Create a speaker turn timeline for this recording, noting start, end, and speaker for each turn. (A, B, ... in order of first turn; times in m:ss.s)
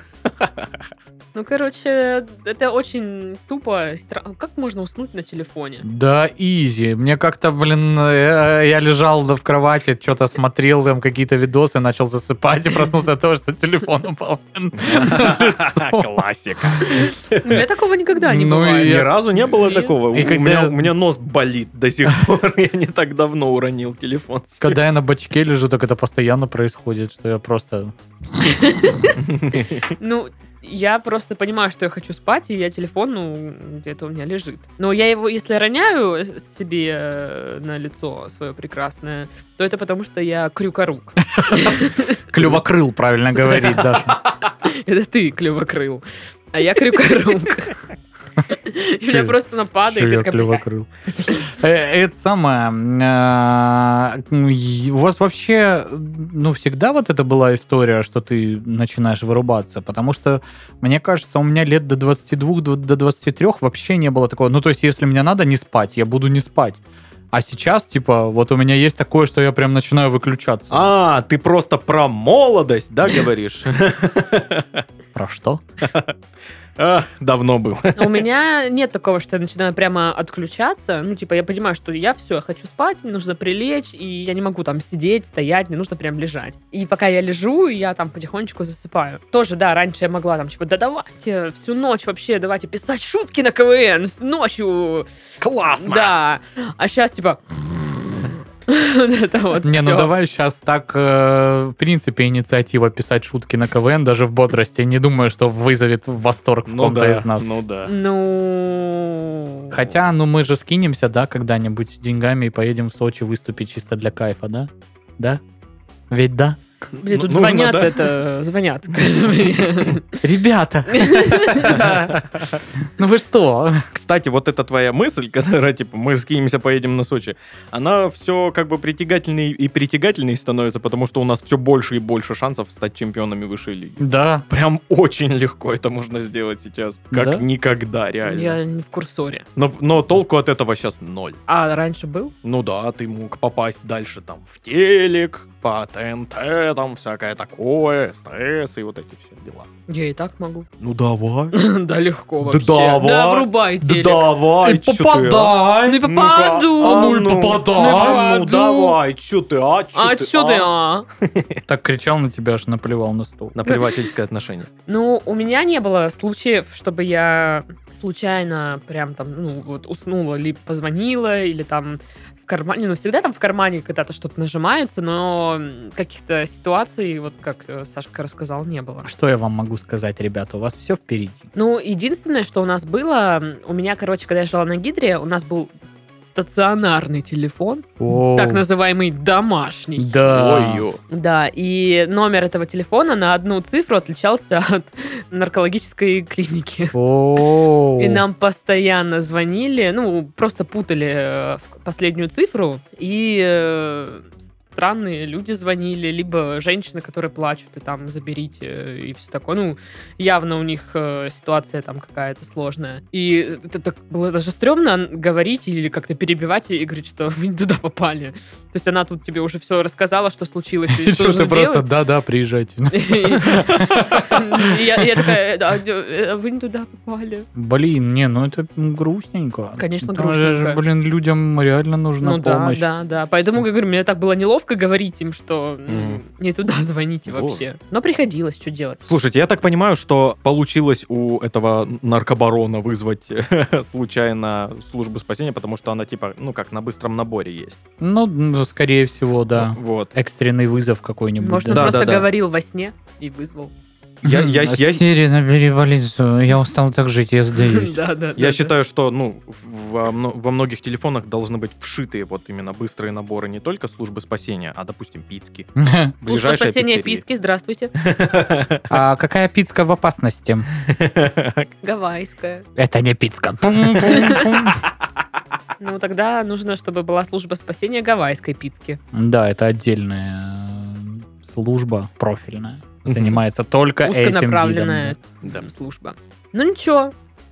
0:01.3-0:05.8 A
0:05.8-0:17.0 B
0:14.8-0:17.6 C
0:16.9-0:20.0 A
0:18.2-0:19.2 B
0:18.8-0:24.8 C
0:20.1-0:20.9 B
0:24.6-0:28.8 B
0:28.5-0:29.2 A
0:29.2-0:29.8 C
0:29.9-0:42.2 A
0:41.3-0:44.2 B
0:44.6-0:47.8 A
0:48.5-0:50.6 A
0:49.0-1:06.8 B
1:07.3-1:10.9 B
1:10.7-1:14.8 C
1:15.2-1:15.6 B
1:15.8-1:16.1 C
1:16.8-1:18.2 C
1:18.0-1:35.1 A
1:35.4-1:36.2 C
1:35.8-1:40.1 A
1:39.6-1:47.5 B
1:46.7-1:47.9 C
1:47.8-1:49.7 A
1:49.7-1:55.4 B
1:56.1-1:56.6 B
1:57.0-2:00.2 A
1:57.1-1:58.1 C
2:00.2-2:02.3 B
2:00.9-2:01.8 A
2:02.8-2:03.8 B
2:03.9-2:18.6 C
2:14.0-2:14.4 B
2:17.1-2:17.4 B
2:18.2-2:19.4 A
2:19.6-2:21.4 C
2:21.5-2:22.3 A
2:22.4-2:29.7 C
2:29.9-2:30.7 A
2:30.8-2:31.6 C
2:31.5-2:34.3 A
2:32.4-2:40.7 C
2:34.6-2:36.0 B
2:35.8-2:37.2 A
2:36.8-2:39.0 B
2:39.9-2:41.1 A
2:41.2-2:41.6 C
2:41.7-2:43.6 B
2:43.6-2:44.7 C
2:44.9-2:59.1 A
2:59.0-3:01.5 B
3:01.6-3:10.1 A
3:08.0-3:08.6 B
3:10.0-3:10.8 B
3:10.3-3:11.0 C
3:11.1-3:17.0 A
3:16.9-3:18.2 B
3:18.0-3:41.9 A
3:40.9-3:44.8 B
3:42.9-3:47.5 A
3:47.6-3:52.9 B
3:49.8-3:50.8 A
3:52.2-3:59.0 A
3:55.9-3:56.2 C
3:57.3-3:57.6 C
3:59.0-4:07.8 C
4:08.0-4:12.2 B
4:09.6-4:10.1 C
4:11.4-4:13.7 A
4:11.7-4:12.3 C
4:14.2-4:15.0 C
4:14.2-4:18.0 B
4:17.6-4:18.7 A
4:18.4-4:25.7 C
4:25.8-4:26.2 B
4:26.2-4:27.2 C
4:26.2-4:27.9 A
4:28.0-4:28.8 C
4:28.9-4:30.7 B
4:30.9-4:31.7 C
4:31.8-4:32.7 A
4:32.8-4:34.8 B
4:34.0-4:34.6 A
4:35.8-4:39.0 A
4:39.1-4:45.2 B
4:43.1-4:43.4 C
4:44.0-4:47.1 A